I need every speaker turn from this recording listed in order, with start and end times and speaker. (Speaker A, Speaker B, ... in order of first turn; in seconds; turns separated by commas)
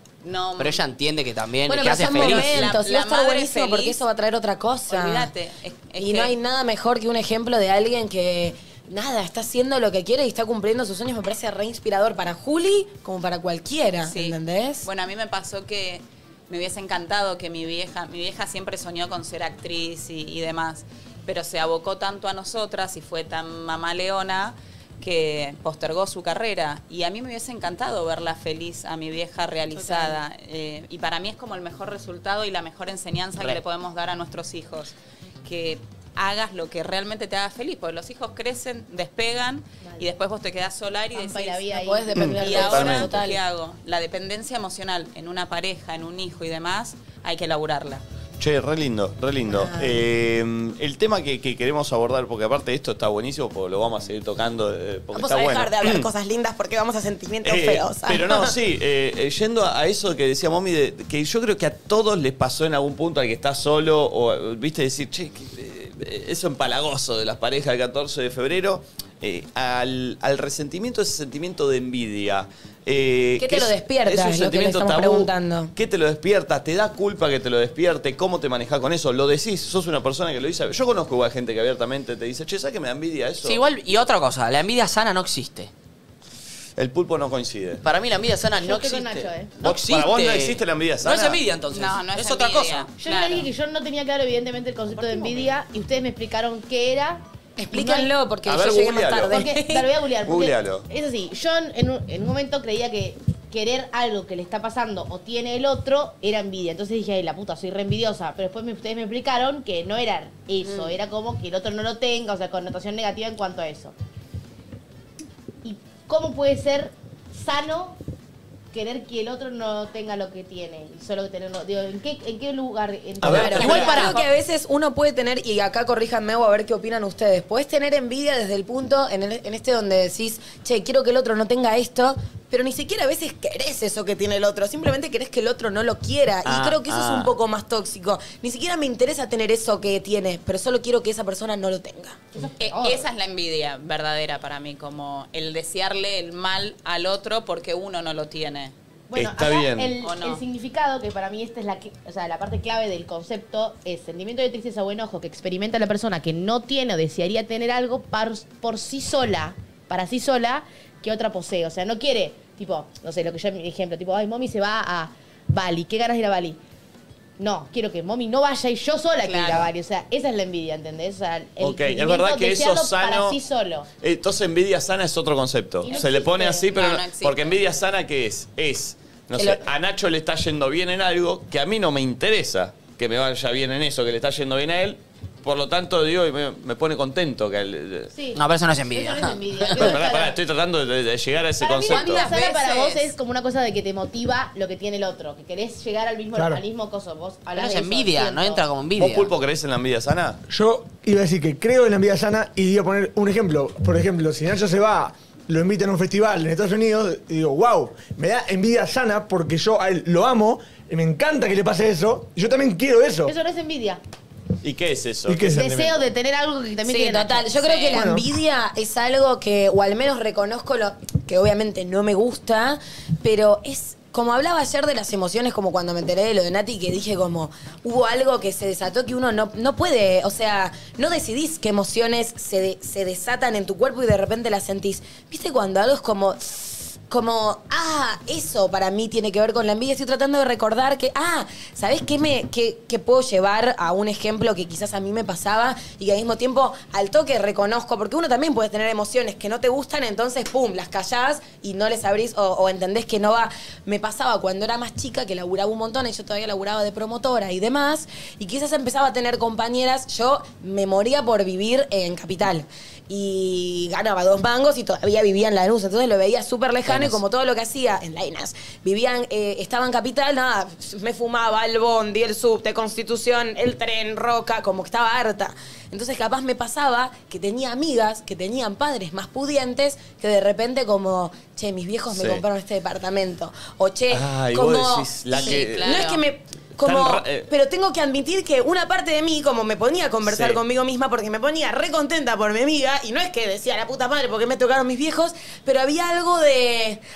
Speaker A: 0.2-0.8, Speaker B: 0.6-2.7, Speaker C: 1.7-5.3, Speaker A: 2.1-4.0, Speaker A: 4.9-6.3, Speaker C: 6.0-14.8, Speaker A: 14.1-48.0, Speaker D: 29.7-30.2, Speaker D: 41.1-43.0, Speaker C: 41.7-43.4, Speaker E: 42.1-43.1, Speaker E: 48.4-56.1, Speaker C: 49.5-50.0, Speaker C: 55.1-58.5, Speaker E: 57.4-83.6, Speaker C: 73.4-75.7, Speaker B: 83.4-85.7, Speaker E: 86.8-87.8, Speaker B: 87.8-92.9, Speaker D: 88.5-89.5, Speaker E: 89.6-91.4, Speaker A: 91.7-93.5, Speaker D: 93.0-98.1, Speaker C: 97.6-99.9, Speaker E: 98.5-99.5, Speaker D: 99.3-113.9, Speaker E: 100.2-100.8, Speaker C: 110.6-111.0, Speaker D: 115.6-118.0, Speaker D: 118.7-124.2, Speaker E: 123.2-123.8, Speaker C: 123.2-142.2, Speaker B: 123.3-124.2, Speaker A: 123.5-124.2, Speaker E: 136.4-137.3, Speaker D: 142.3-143.1, Speaker A: 142.6-148.7, Speaker D: 149.1-166.6, Speaker E: 149.1-149.9, Speaker A: 150.0-150.4, Speaker D: 167.4-173.9, Speaker A: 169.2-169.7, Speaker E: 171.6-173.4, Speaker E: 174.0-188.1, Speaker D: 175.8-176.7, Speaker A: 176.7-177.6, Speaker D: 188.1-190.4, Speaker B: 188.3-189.9, Speaker E: 189.7-192.2, Speaker D: 191.6-198.6, Speaker A: 191.8-193.1, Speaker F: 196.3-196.6, Speaker B: 197.5-199.3, Speaker E: 199.0-200.4, Speaker F: 200.5-213.3, Speaker D: 213.3-214.0, Speaker E: 214.6-216.1, Speaker F: 215.2-215.7, Speaker D: 215.4-217.4, Speaker A: 216.8-218.0, Speaker C: 217.0-297.0, Speaker F: 217.9-218.2, Speaker B: 266.9-267.2, Speaker E: 282.1-282.4, Speaker E: 284.1-286.1, Speaker A: 285.3-286.2, Speaker E: 286.8-287.5, Speaker E: 290.2-290.6